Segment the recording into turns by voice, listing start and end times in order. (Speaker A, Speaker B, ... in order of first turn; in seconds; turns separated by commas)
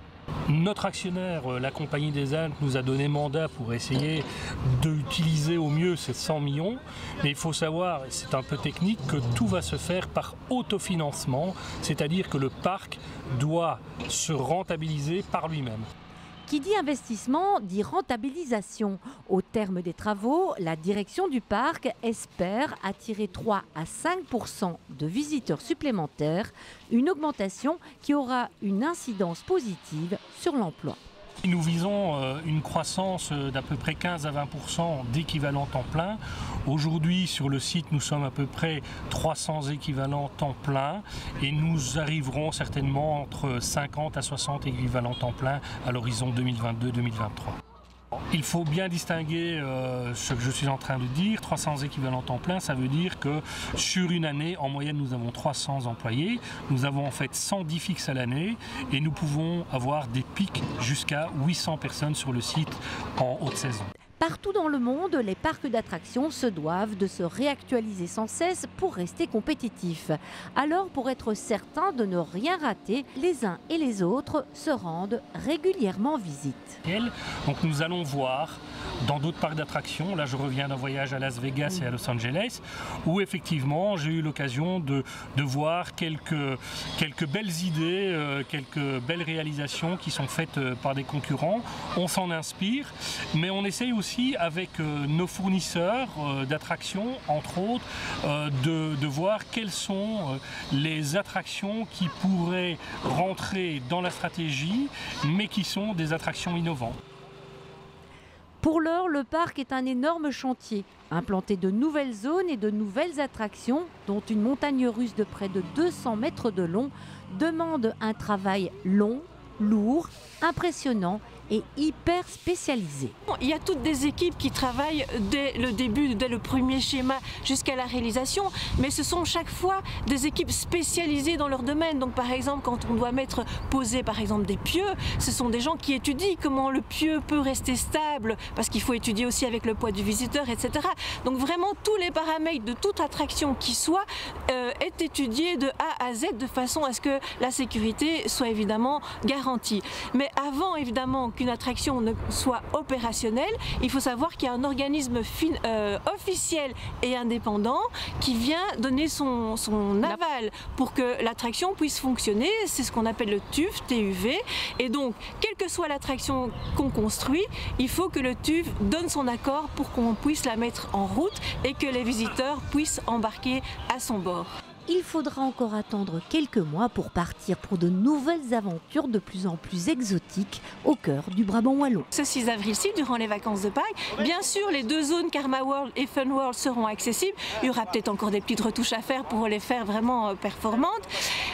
Speaker A: 0.5-15.9, Speaker B: 16.5-31.0, Speaker A: 31.4-47.6, Speaker A: 48.3-63.9, Speaker B: 64.2-76.8, Speaker A: 76.8-107.0, Speaker B: 108.6-123.1, Speaker C: 123.3-174.5, Speaker B: 174.9-182.1, Speaker C: 182.1-191.0